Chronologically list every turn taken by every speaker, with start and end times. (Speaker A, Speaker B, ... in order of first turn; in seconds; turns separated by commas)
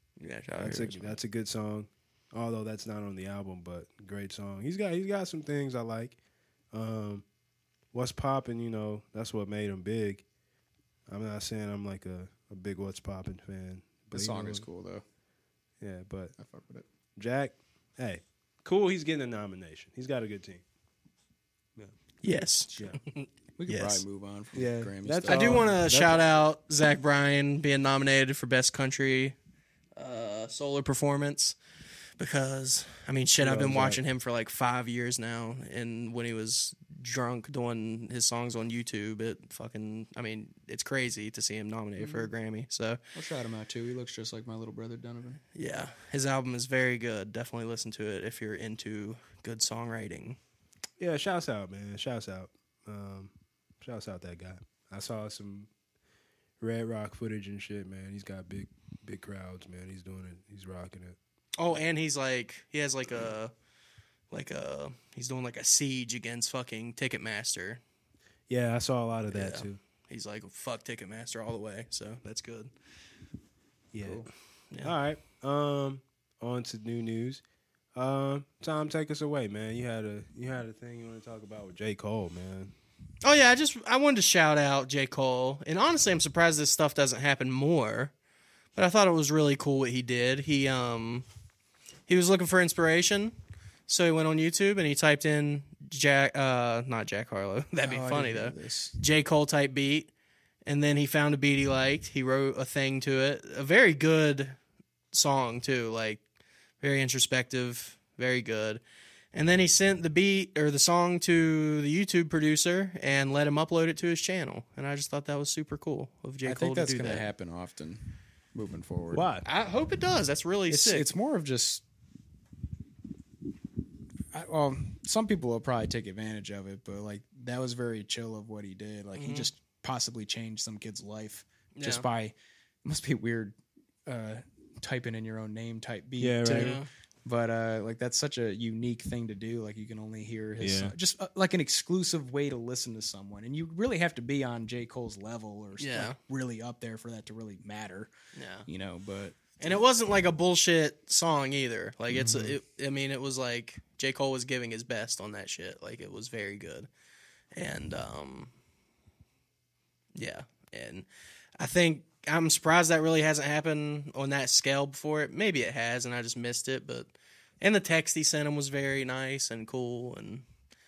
Speaker A: 0.2-1.2, Speaker B: 0.6-6.2, Speaker B: 6.7-7.2, Speaker B: 7.9-10.2, Speaker B: 11.1-14.7, Speaker C: 14.1-15.0, Speaker B: 15.8-16.3, Speaker C: 16.4-16.8, Speaker B: 17.2-20.6, Speaker A: 22.2-24.0, Speaker B: 22.7-23.0, Speaker C: 23.6-25.7, Speaker B: 24.5-26.4, Speaker A: 25.3-29.4, Speaker A: 29.9-31.6, Speaker A: 32.2-43.0, Speaker C: 33.4-34.0, Speaker C: 42.0-42.3, Speaker C: 43.1-45.4, Speaker A: 45.5-50.4, Speaker B: 51.0-55.7, Speaker B: 56.6-61.2, Speaker A: 61.6-63.5, Speaker A: 64.3-67.8, Speaker B: 68.5-69.8, Speaker A: 69.3-72.7, Speaker B: 73.9-74.3, Speaker C: 74.0-74.3, Speaker B: 74.8-77.4, Speaker B: 77.9-82.7, Speaker A: 83.2-88.1, Speaker A: 88.8-91.2, Speaker A: 92.1-93.3, Speaker A: 93.9-100.1, Speaker C: 97.8-99.0, Speaker A: 100.7-104.5, Speaker A: 105.1-106.2, Speaker A: 106.8-108.8, Speaker A: 109.3-117.3, Speaker C: 116.4-118.0, Speaker C: 118.5-119.3, Speaker B: 119.1-119.4, Speaker A: 119.4-121.1, Speaker C: 120.7-121.8, Speaker C: 124.3-132.3, Speaker A: 129.1-129.5, Speaker A: 131.7-132.1, Speaker C: 132.8-133.5, Speaker C: 134.1-148.1, Speaker B: 136.2-136.8, Speaker A: 136.4-136.9, Speaker B: 140.6-140.9, Speaker A: 145.8-146.2, Speaker A: 148.3-148.7, Speaker C: 148.7-149.8, Speaker A: 149.6-156.9, Speaker C: 152.1-152.5, Speaker A: 157.5-158.5, Speaker A: 160.1-161.1, Speaker A: 161.6-170.4